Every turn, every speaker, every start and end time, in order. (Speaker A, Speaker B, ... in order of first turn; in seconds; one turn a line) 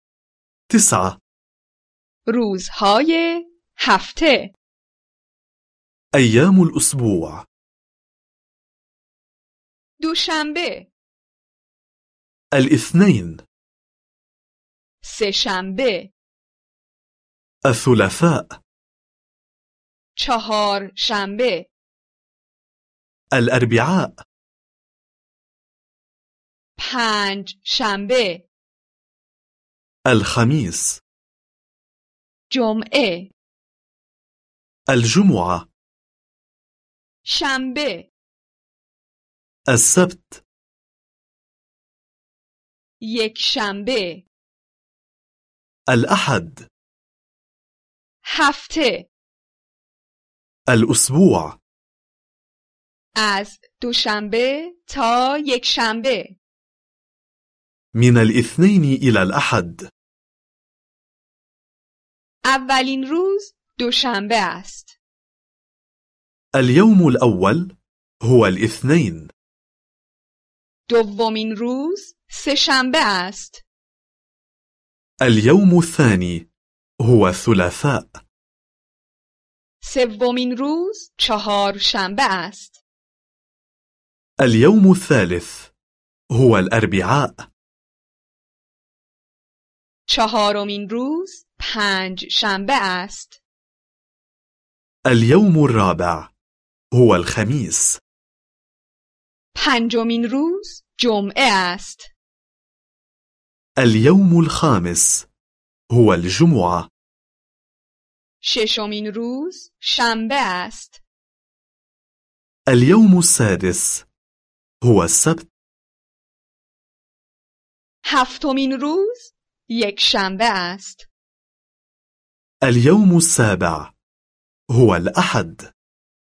Speaker A: 0.7-1.2
Speaker B: 2.3-4.5
Speaker A: 6.1-7.5
Speaker B: 10.0-10.9
Speaker A: 12.5-13.4
Speaker B: 15.0-16.1
Speaker A: 17.7-18.6
Speaker B: 20.2-21.7
Speaker A: 23.3-24.2
Speaker B: 26.8-28.4
Speaker A: 30.1-31.0
Speaker B: 32.5-33.3
Speaker A: 34.9-35.7
Speaker B: 37.3-38.1
Speaker A: 39.7-40.4
Speaker B: 43.0-44.3
Speaker A: 45.9-46.7
Speaker B: 48.2-49.1
Speaker A: 50.7-51.6
Speaker B: 53.2-56.4
Speaker A: 57.9-59.9
Speaker B: 62.5-65.0
Speaker A: 66.5-69.3
Speaker B: 70.9-73.6
Speaker A: 75.2-76.5
Speaker A: 77.0-78.2
Speaker B: 79.8-82.8
Speaker A: 84.4-85.7
Speaker A: 86.3-87.4
Speaker B: 90.1-93.4
Speaker A: 95.1-96.3
Speaker A: 96.9-98.0
Speaker B: 99.5-102.1
Speaker A: 103.8-105.3
Speaker A: 105.9-106.9
Speaker B: 108.4-111.0
Speaker A: 112.7-114.0
Speaker A: 114.8-115.5
Speaker B: 118.0-121.1
Speaker A: 122.6-123.9
Speaker A: 124.7-125.7